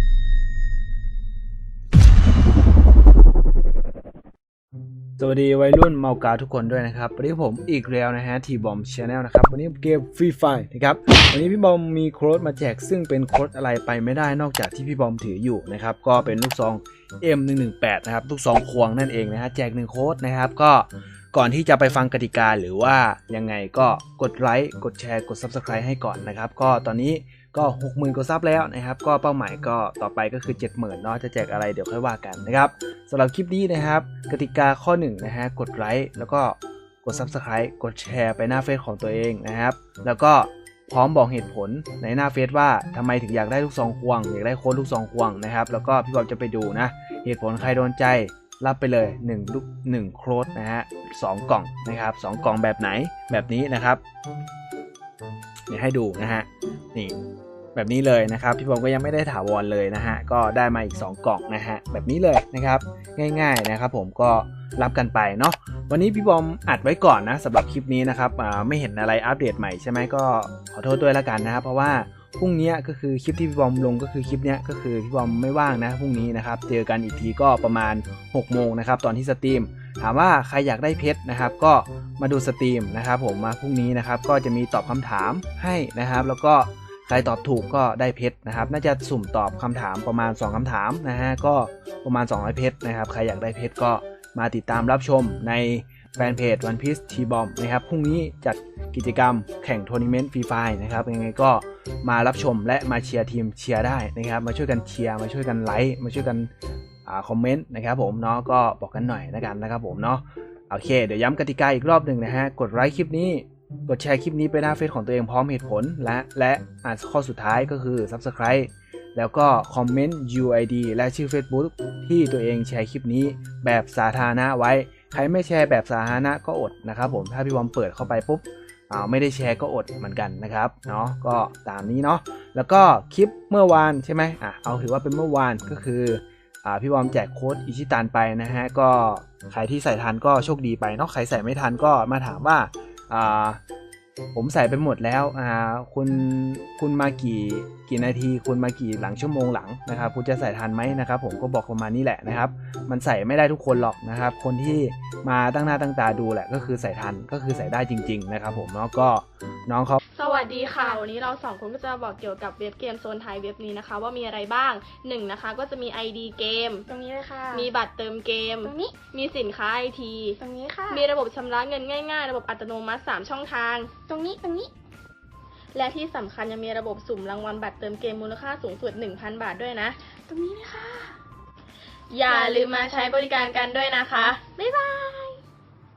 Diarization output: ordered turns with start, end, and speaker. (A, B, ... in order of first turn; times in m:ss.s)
0:05.2-0:54.0 A
0:55.7-0:57.2 A
0:57.8-1:46.5 A
1:47.0-2:23.6 A
2:24.3-2:40.0 A
2:40.1-2:46.9 B
2:40.2-2:41.0 C
2:46.9-2:47.7 C
2:47.5-2:50.4 B
2:48.6-2:49.0 C
2:50.4-2:51.1 C
2:50.9-2:53.9 B
2:54.1-2:54.7 C
2:55.7-3:00.0 B
3:00.3-3:01.2 C
3:02.1-3:04.4 B
3:02.3-3:03.0 C
3:04.4-3:05.4 C